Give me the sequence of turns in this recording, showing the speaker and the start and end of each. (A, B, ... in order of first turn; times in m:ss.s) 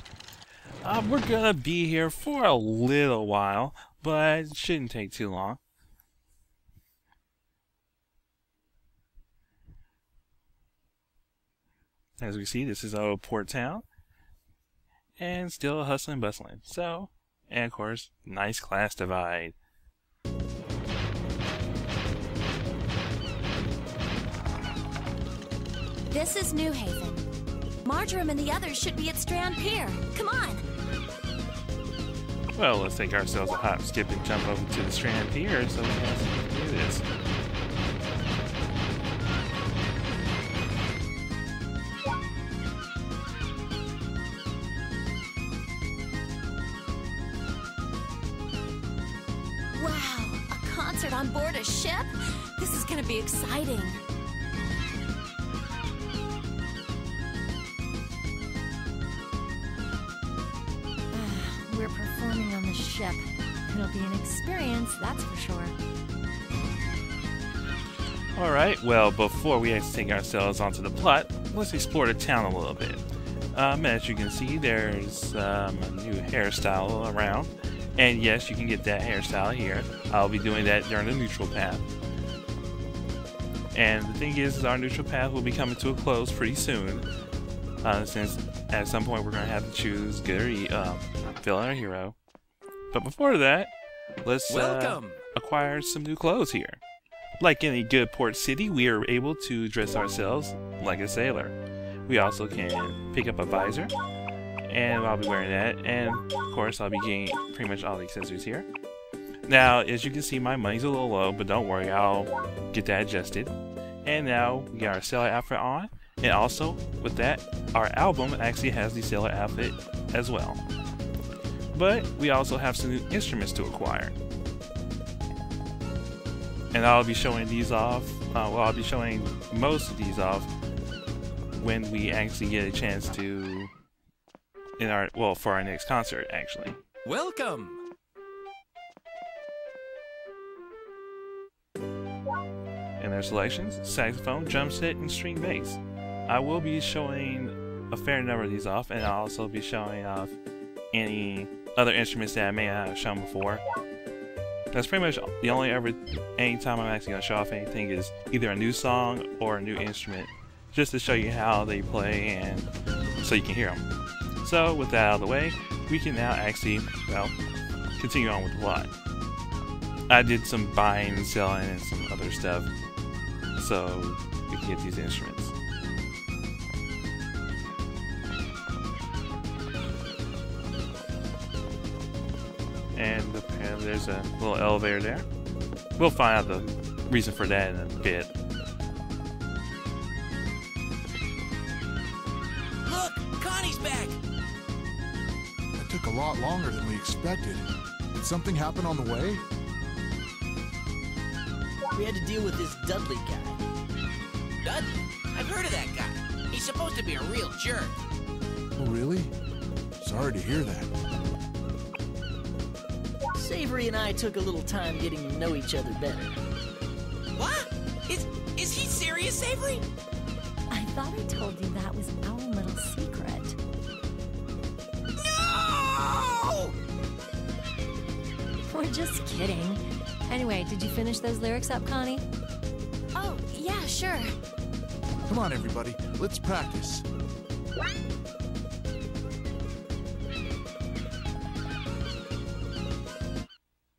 0:00.8-0:05.6 A
0:12.2-0:13.8 A
0:15.2-0:19.5 A
0:26.1-0:27.2 B
0:27.8-0:30.6 B
0:32.5-0:37.0 A
0:49.7-0:54.0 B
1:01.1-1:05.7 B
1:08.4-1:13.0 A
1:13.5-1:21.9 A
1:23.7-1:27.1 A
1:27.8-1:32.2 A
1:32.9-1:33.7 A
1:34.2-1:36.8 A
1:34.5-1:35.2 C
1:37.4-1:41.5 A
1:42.1-1:43.9 A
1:44.7-1:48.7 A
1:49.4-1:53.5 A
1:54.0-2:00.6 A
2:01.7-2:04.2 A
2:06.7-2:10.5 A
2:11.6-2:13.7 A
2:14.8-2:16.8 A
2:17.0-2:17.8 C
2:23.0-2:30.4 A
2:30.9-2:33.6 A
2:34.7-2:42.7 A
2:43.2-2:43.8 A
2:44.4-2:47.3 A
2:48.0-2:48.9 A
2:50.1-2:52.7 A
2:53.6-2:55.5 A
3:02.9-3:05.2 A
3:06.0-3:08.3 A
3:12.8-3:14.2 C
3:15.8-3:19.4 D
3:21.9-3:23.6 E
3:24.6-3:28.0 C
3:28.8-3:29.3 D
3:30.0-3:30.9 D
3:33.3-3:36.4 E
3:37.4-3:39.8 C
3:40.7-3:43.6 B
3:45.2-3:46.7 C
3:48.7-3:52.2 B
3:53.1-3:54.3 B
3:55.3-3:57.0 D